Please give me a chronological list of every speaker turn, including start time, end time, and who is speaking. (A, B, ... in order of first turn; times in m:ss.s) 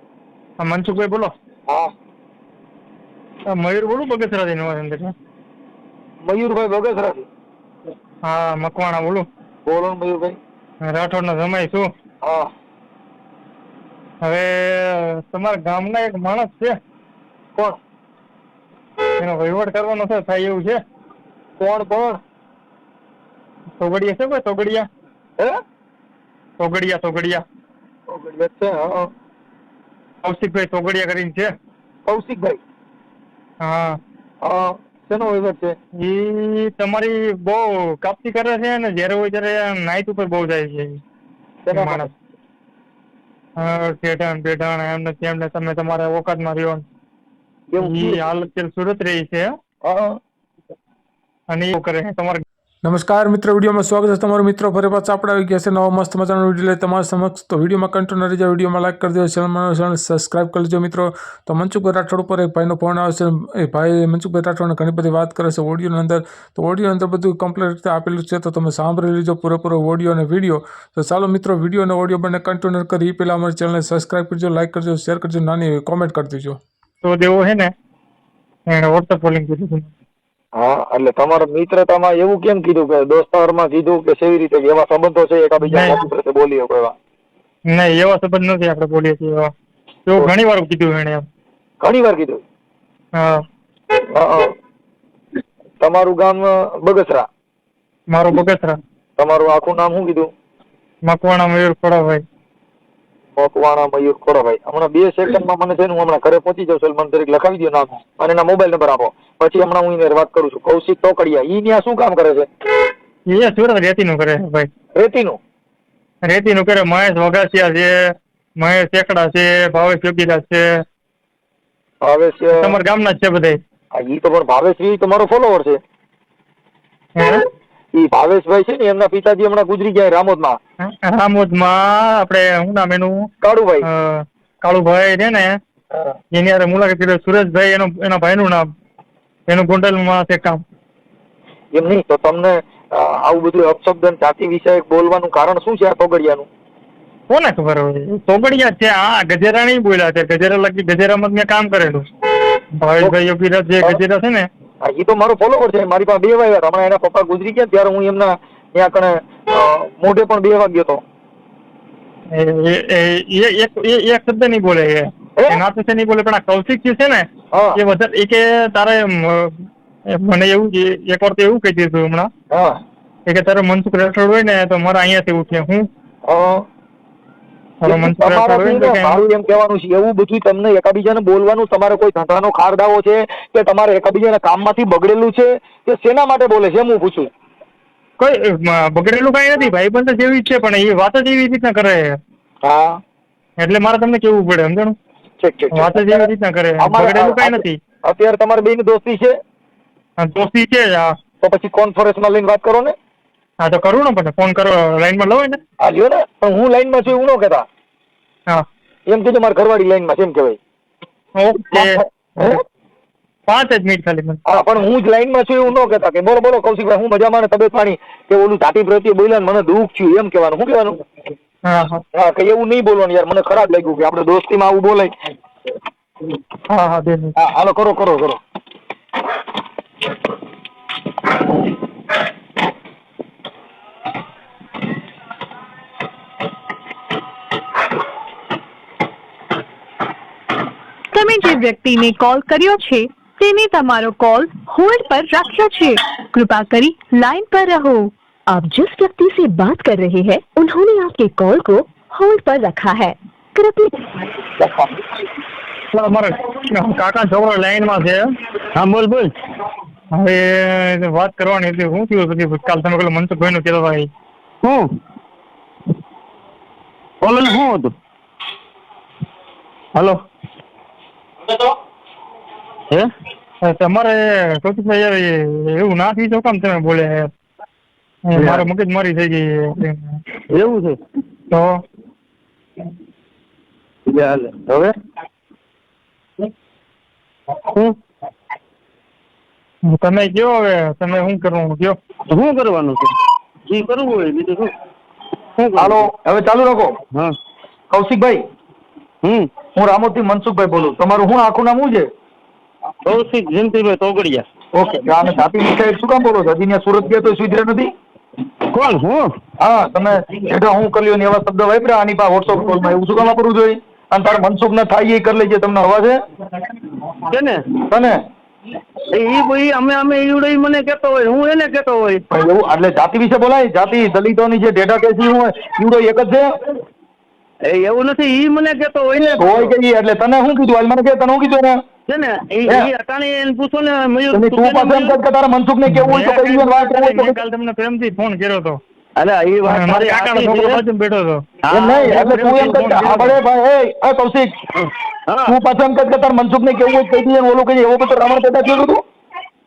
0:00.6-0:01.3 A
0:03.5-0:05.1 A
0:06.2-0:07.2 B
0:08.2-0:09.2 A
0:09.6-0:10.4 B
0:10.9-0:11.9 A
0:12.2-0:12.5 B
0:14.2-0:16.8 A
0:19.2-0:20.8 A
0:21.6-0:22.2 B
0:23.8-0:24.9 A
0:26.6-0:27.4 A
0:28.1-0:29.1 B
0:30.2-0:31.5 A
0:32.1-0:32.6 B
0:33.6-0:34.0 A
0:34.4-0:35.8 B
0:36.0-0:41.0 A
0:41.6-0:42.1 B
0:41.7-0:42.1 A
0:43.6-0:46.8 A
0:47.7-0:48.2 B
0:47.8-0:49.5 A
0:49.8-0:50.2 B
0:51.5-0:52.4 A
0:52.8-1:16.6 C
1:17.0-1:17.7 A
1:18.7-1:19.9 A
1:20.6-1:27.0 B
1:25.7-1:26.0 A
1:27.7-1:29.5 A
1:30.1-1:31.2 A
1:31.8-1:32.4 B
1:33.2-1:33.4 A
1:34.1-1:34.5 B
1:35.8-1:37.2 B
1:38.1-1:38.8 A
1:39.2-1:40.3 B
1:41.0-1:42.2 A
1:43.4-1:52.5 B
1:53.3-1:54.7 A
1:55.0-1:55.4 B
1:56.2-2:00.8 A
2:02.0-2:02.7 B
2:02.6-2:03.6 A
2:03.9-2:05.8 B
2:07.2-2:07.4 A
2:07.9-2:10.6 B
2:10.8-2:13.3 A
2:13.4-2:13.8 B
2:13.8-2:15.6 A
2:16.3-2:18.7 A
2:19.5-2:20.6 A
2:21.7-2:26.5 B
2:27.3-2:32.0 A
2:32.8-2:34.5 A
2:34.8-2:41.0 B
2:42.3-2:52.3 A
2:47.5-2:47.8 B
2:52.5-2:52.8 B
2:53.3-2:55.9 A
2:56.3-2:56.6 B
2:57.8-2:59.2 A
2:57.8-3:07.3 B
3:08.2-3:12.2 A
3:12.6-3:13.0 B
3:13.6-3:15.0 A
3:15.4-3:16.2 B
3:15.7-3:17.8 A
3:16.8-3:19.3 B
3:20.2-3:21.1 A
3:21.4-3:22.9 B
3:23.6-3:25.6 A
3:25.8-3:27.6 B
3:29.1-3:30.6 B
3:31.4-3:32.5 A
3:31.7-3:32.6 B
3:33.5-3:34.4 A
3:34.5-3:41.0 B
3:41.7-3:42.0 A
3:42.1-3:45.1 B
3:46.7-3:47.3 A
3:47.4-3:48.4 B
4:01.1-4:14.0 D
4:14.6-4:15.0 B
4:15.9-4:18.2 A
4:18.8-4:19.3 E
4:20.1-4:24.1 A
4:27.2-4:27.9 E
4:33.6-4:37.3 A
4:38.3-4:40.2 A
4:38.4-4:38.6 E
4:40.5-4:41.0 E
4:41.5-4:41.8 A
4:44.1-4:44.9 E
4:47.6-4:47.9 E
4:49.9-4:52.0 A
4:52.3-4:53.1 E
4:53.7-4:54.7 E
4:55.6-4:56.1 E
4:55.8-4:56.9 B
4:57.9-4:58.4 B
4:59.8-5:02.1 B
5:03.1-5:04.4 E
5:04.7-5:07.9 B
5:08.7-5:09.3 E
5:09.6-5:16.2 B
5:17.3-5:17.6 E
5:17.9-5:18.2 B
5:19.1-5:22.2 E
5:22.3-5:26.5 B
5:27.7-5:29.7 E
5:29.4-5:31.8 B
5:32.1-5:35.2 E
5:34.3-5:37.4 B
5:35.9-5:38.8 A
5:39.2-5:40.8 E
5:39.7-5:41.4 A
5:41.7-5:43.0 E
5:41.7-5:44.5 B
5:42.6-5:43.3 A
5:44.9-5:45.6 E
5:45.5-5:49.0 B